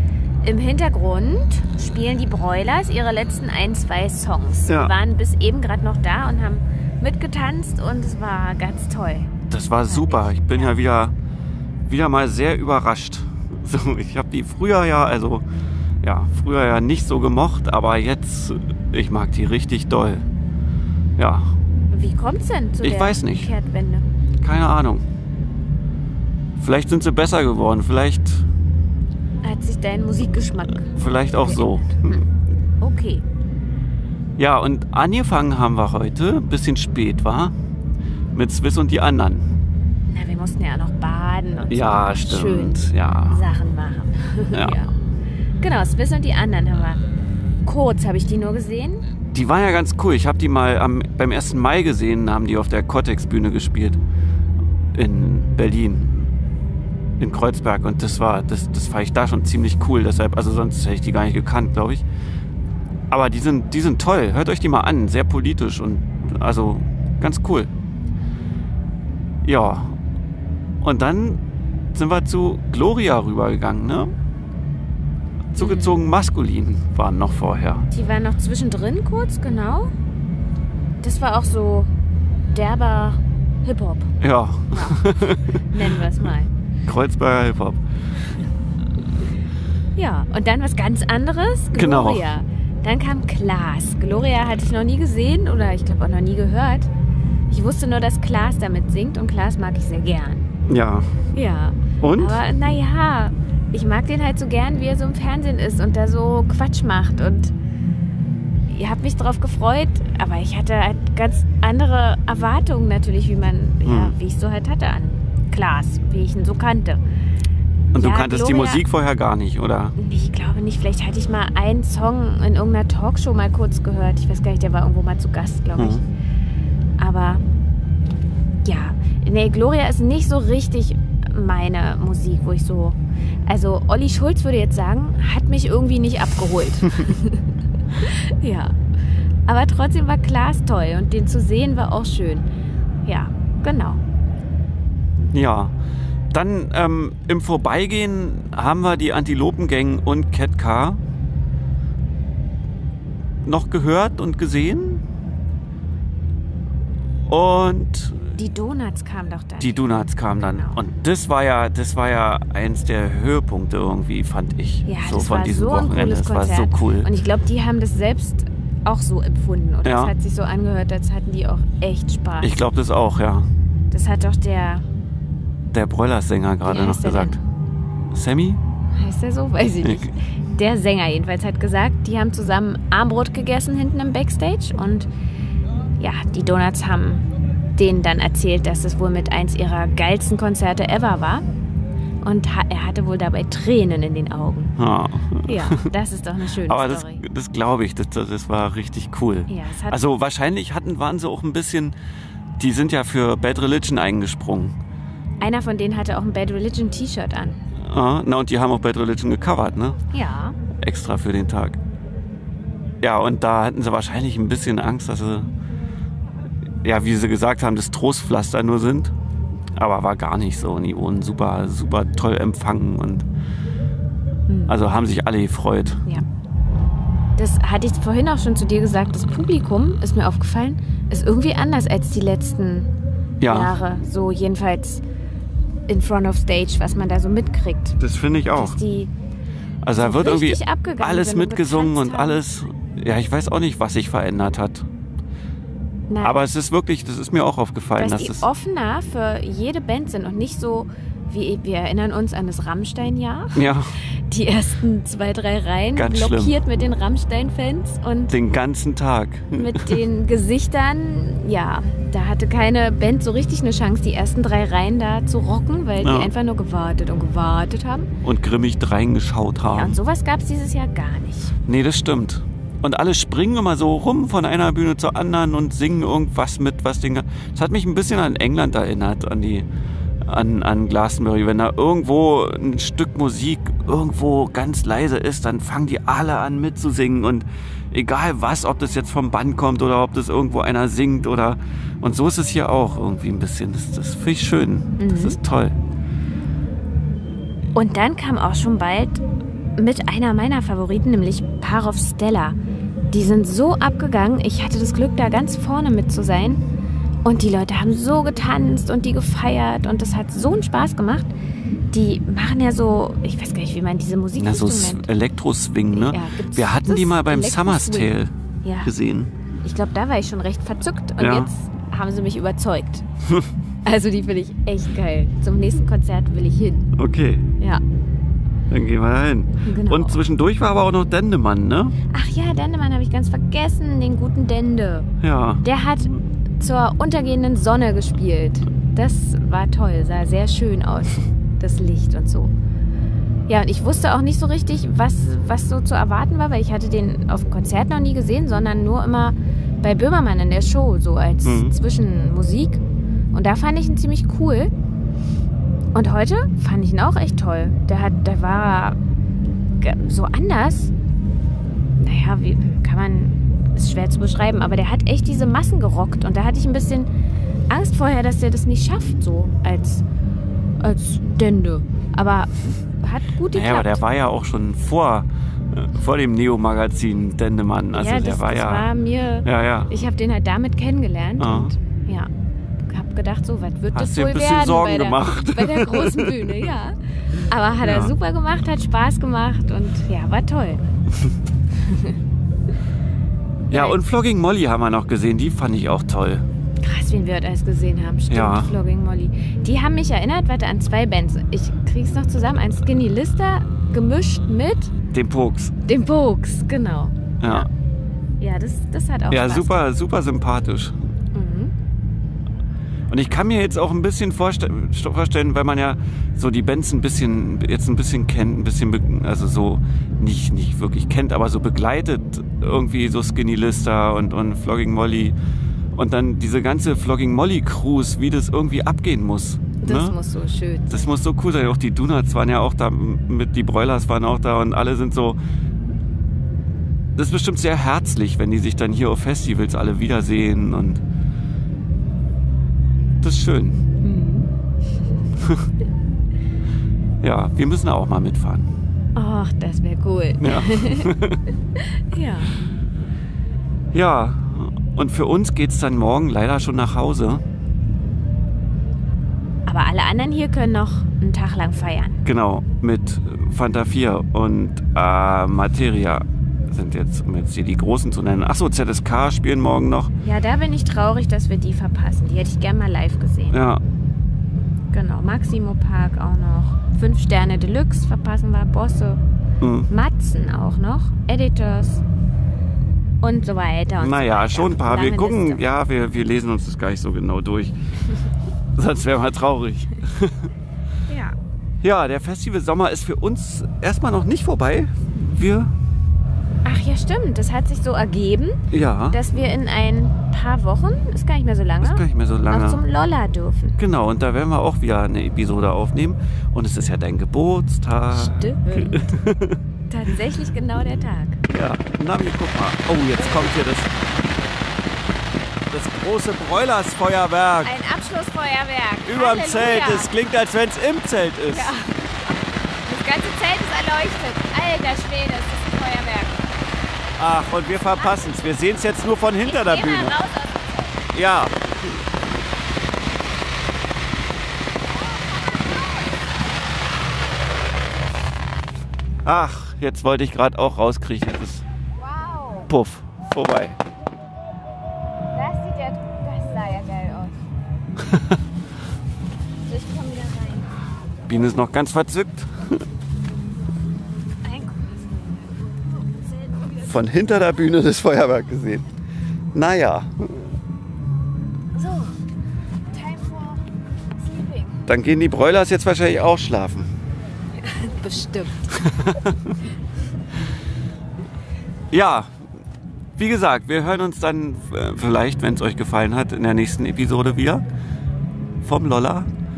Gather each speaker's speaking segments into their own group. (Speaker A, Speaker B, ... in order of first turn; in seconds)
Speaker A: 0.4-9.3, 9.9-10.7, 21.9-24.0, 29.4-32.2, 32.8-33.2, 40.1-44.9, 45.6-47.0, 47.6-49.0, 75.6-76.0, 77.9-79.9, 81.0-81.9, 82.5-84.1, 84.7-85.2, 85.7-86.5, 90.0-96.9, 97.5-100.5, 101.3-107.5, 108.7-117.0, 117.9-118.8, 120.0-126.0, 127.0-127.4, 128.6-137.4, 138.0-138.8, 139.5-142.5, 143.1-144.0, 158.3-159.8, 160.4-160.8, 164.8-172.5, 173.9-174.8, 176.7-177.4, 178.9-185.1, 186.0-187.2, 187.8-191.4, 192.2-194.7, 195.5-197.2, 199.5-200.0, 205.4-207.6, 210.1-210.6, 224.5-224.8, 227.4-232.9, 233.5-235.0, 235.9-238.0, 238.5-239.1, 240.0-242.4, 246.1-246.4, 248.0-253.6, 254.3-258.3, 259.5-268.1, 269.7-271.5, 295.0-295.4, 297.7-299.2, 299.8-302.6, 303.1-306.6, 307.2-311.3, 311.9-315.1, 315.9-318.1, 318.6-318.9, 319.6-323.1, 323.8-326.9, 329.6-330.2, 332.1-335.1, 335.6-342.5, 343.5-352.8, 353.3-354.7, 355.9-359.0, 359.8-360.9, 362.0-367.1, 367.7-370.0, 370.8-374.0, 377.9-382.3, 382.9-390.8, 391.8-392.1, 393.7-394.0, 396.8-404.9, 405.9-407.7, 408.4-409.7, 411.3-411.7, 429.8-431.0, 444.0-444.5, 449.1-451.1, 451.8-452.6, 459.6-462.2, 470.2-473.6, 474.9-479.2, 479.9-482.0, 483.2-485.6, 491.1-491.4, 496.6-498.6, 499.1-503.7, 508.1-509.1, 509.9-511.4, 517.6-520.1, 521.5-522.3, 522.8-526.6, 528.0-528.3, 529.4-531.0, 534.9-536.3, 542.0-542.7, 545.3-547.4, 549.6-550.7, 554.4-556.9, 561.8-562.2, 562.9-563.6, 564.3-564.8, 567.6-568.8
Speaker B: 4.7-4.9, 9.5-11.1, 11.9-15.4, 16.0-20.2, 21.2-21.5, 22.8-23.5, 24.4-25.0, 26.6-28.4, 30.7-32.2, 34.4-37.5, 38.3-39.5, 41.7-43.4, 49.3-54.0, 54.9-56.3, 57.2-62.0, 63.1-67.7, 69.4-70.0, 70.8-71.4, 71.9-74.1, 75.5-77.8, 84.2-85.9, 86.9-87.8, 91.8-92.3, 100.7-101.2, 102.0-102.4, 113.8-114.1, 117.9-119.9, 125.8-126.0, 145.3-145.7, 146.3-151.0, 153.4-155.0, 157.3-158.3, 159.6-167.1, 169.8-170.1, 172.4-173.5, 175.7-177.4, 178.1-178.6, 194.8-195.9, 196.7-201.9, 202.6-204.7, 207.8-210.0, 210.8-211.8, 213.0-215.5, 216.8-219.1, 219.8-223.2, 224.7-226.0, 233.4-233.7, 238.0-238.8, 239.8-244.9, 246.2-248.4, 253.5-253.9, 255.9-256.6, 258.3-260.0, 266.0-266.3, 268.2-270.0, 271.6-279.6, 280.2-295.8, 314.4-318.3, 318.8-319.3, 321.2-321.5, 326.9-327.5, 328.7-331.9, 335.2-335.6, 351.4-351.7, 373.5-378.9, 379.4-379.9, 381.4-381.7, 383.9-386.6, 387.8-388.1, 393.7-396.4, 398.3-398.7, 405.0-405.7, 407.4-407.7, 409.3-411.0, 413.1-425.3, 425.9-430.1, 430.9-435.4, 437.1-441.0, 443.2-443.8, 447.2-448.7, 450.4-451.4, 453.9-457.4, 462.2-470.1, 473.5-473.8, 479.6-479.9, 484.0-487.7, 488.8-490.5, 491.8-495.7, 498.7-499.2, 501.8-502.8, 503.8-509.6, 511.5-513.9, 515.7-517.7, 519.0-521.7, 527.2-530.1, 531.1-532.0, 539.2-541.6, 542.7-543.8, 548.0-548.4, 551.3-552.8, 556.8-558.9, 559.5-560.5, 564.9-566.9, 568.8-569.5, 571.9-572.4, 573.2-577.6, 578.6-579.3